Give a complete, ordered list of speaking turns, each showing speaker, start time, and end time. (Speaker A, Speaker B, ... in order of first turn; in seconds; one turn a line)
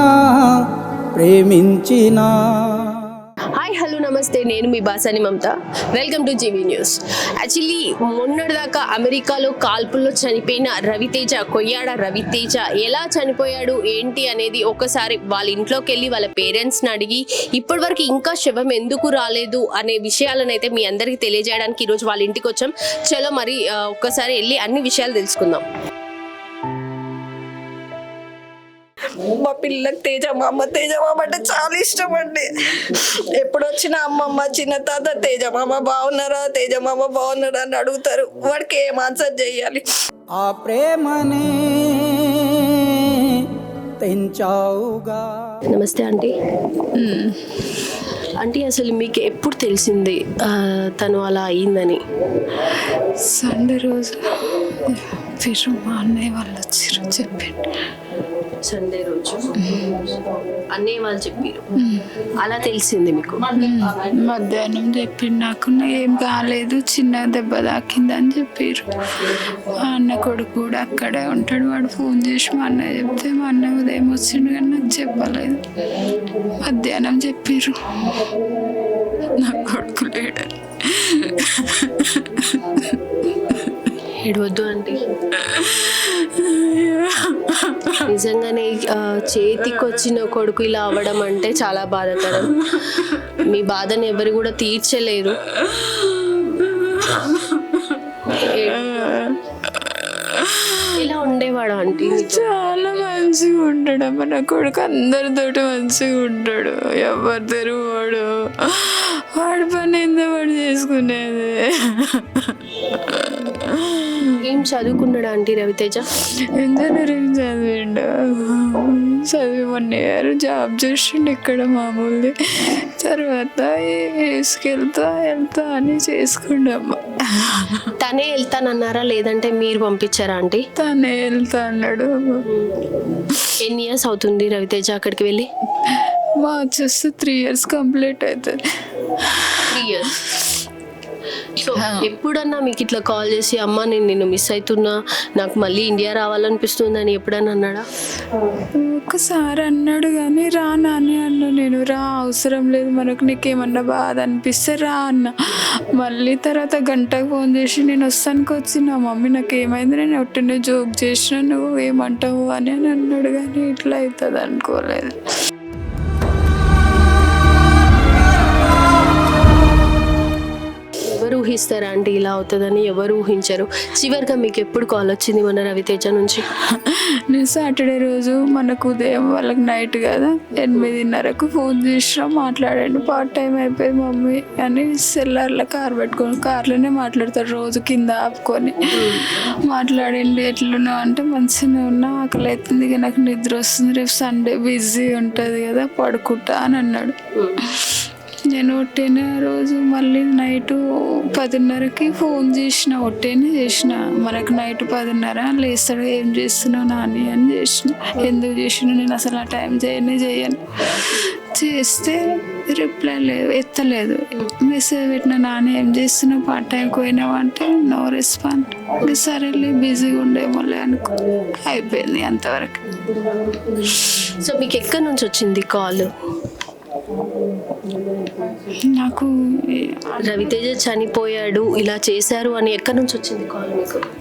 Speaker A: 1.2-2.3
Speaker B: 3.6-25.6
Speaker C: 29.1-39.8
Speaker A: 40.4-41.5
Speaker A: 44.0-45.2
Speaker B: 45.7-46.3
Speaker D: 46.9-47.7
Speaker B: 48.4-52.0
Speaker D: 52.6-57.8
Speaker B: 58.6-60.2
Speaker D: 59.6-60.0
Speaker B: 60.7-61.6
Speaker D: 61.8-62.1
Speaker B: 62.4-63.4
Speaker D: 63.5-75.7
Speaker D: 76.6-83.9
Speaker B: 84.2-85.0
Speaker D: 85.4-88.1
Speaker B: 88.0-95.4
Speaker D: 89.6-90.1
Speaker D: 92.3-93.3
Speaker D: 95.5-101.1
Speaker B: 98.3-99.3
Speaker B: 101.0-103.2
Speaker D: 102.0-114.4
Speaker B: 114.4-116.0
Speaker D: 116.6-127.9
Speaker B: 128.0-130.6
Speaker D: 130.8-132.5
Speaker B: 132.5-132.9
Speaker D: 133.1-133.5
Speaker B: 133.6-135.5
Speaker D: 135.8-140.6
Speaker B: 139.7-140.2
Speaker B: 141.6-147.8
Speaker D: 141.8-142.1
Speaker D: 148.8-155.3
Speaker D: 156.0-165.2
Speaker B: 171.1-176.4
Speaker D: 176.7-223.0
Speaker B: 188.9-189.3
Speaker B: 224.2-226.1
Speaker D: 228.9-230.6
Speaker B: 230.2-234.0